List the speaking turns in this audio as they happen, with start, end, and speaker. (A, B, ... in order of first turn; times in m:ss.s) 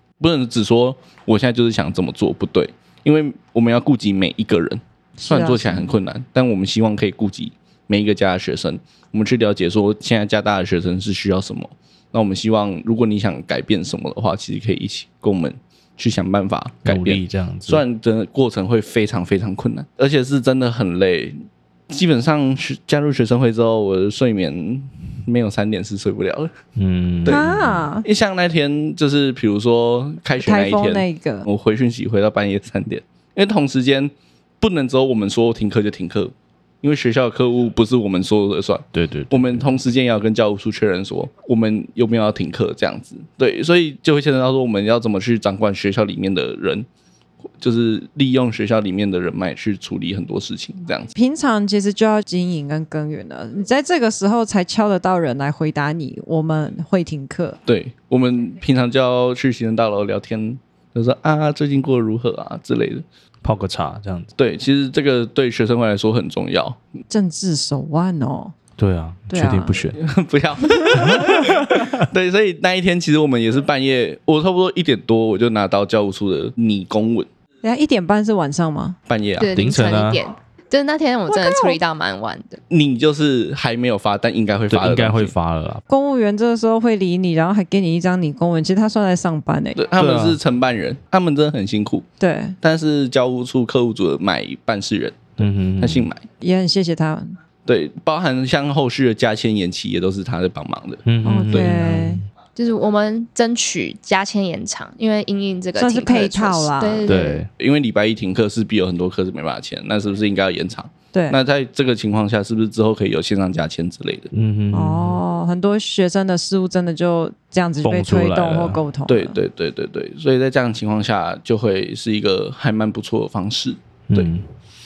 0:00.2-0:21.4 A
0:05.2-0:05.9 B
0:16.8-0:17.8 C
0:21.9-0:26.5 A
0:26.8-0:27.9 C
0:27.3-0:28.1 B
0:28.0-0:46.9 A
0:30.4-0:31.5 B
0:38.9-0:39.7 C
0:47.6-0:51.1 A
0:51.1-0:57.6 B
0:57.6-1:03.0 A
1:03.4-1:04.3 C
1:04.4-1:06.8 A
1:07.1-1:08.5 B
1:08.8-1:10.0 C
1:09.3-1:09.8 B
1:09.9-1:17.3 A
1:10.9-1:11.9 C
1:17.6-1:19.0 B
1:19.1-1:19.5 A
1:19.4-1:22.6 D
1:19.5-1:20.2 C
1:21.3-1:21.8 B
1:22.7-1:25.3 A
1:24.7-1:25.8 C
1:25.9-1:29.8 B
1:29.8-1:32.0 A
1:30.0-1:30.4 C
1:32.2-1:32.6 B
1:32.6-1:36.2 A
1:35.4-1:36.1 C
1:36.4-1:37.3 B
1:37.6-1:41.7 A
1:41.0-1:42.2 C
1:41.2-1:42.2 B
1:42.6-1:47.4 D
1:45.8-1:47.1 B
1:47.0-1:47.5 C
1:47.5-1:54.3 A
1:51.1-1:51.4 B
1:54.3-1:55.2 C
1:54.7-1:59.4 B
1:57.8-1:58.8 C
1:59.1-2:04.3 A
2:04.1-2:04.5 C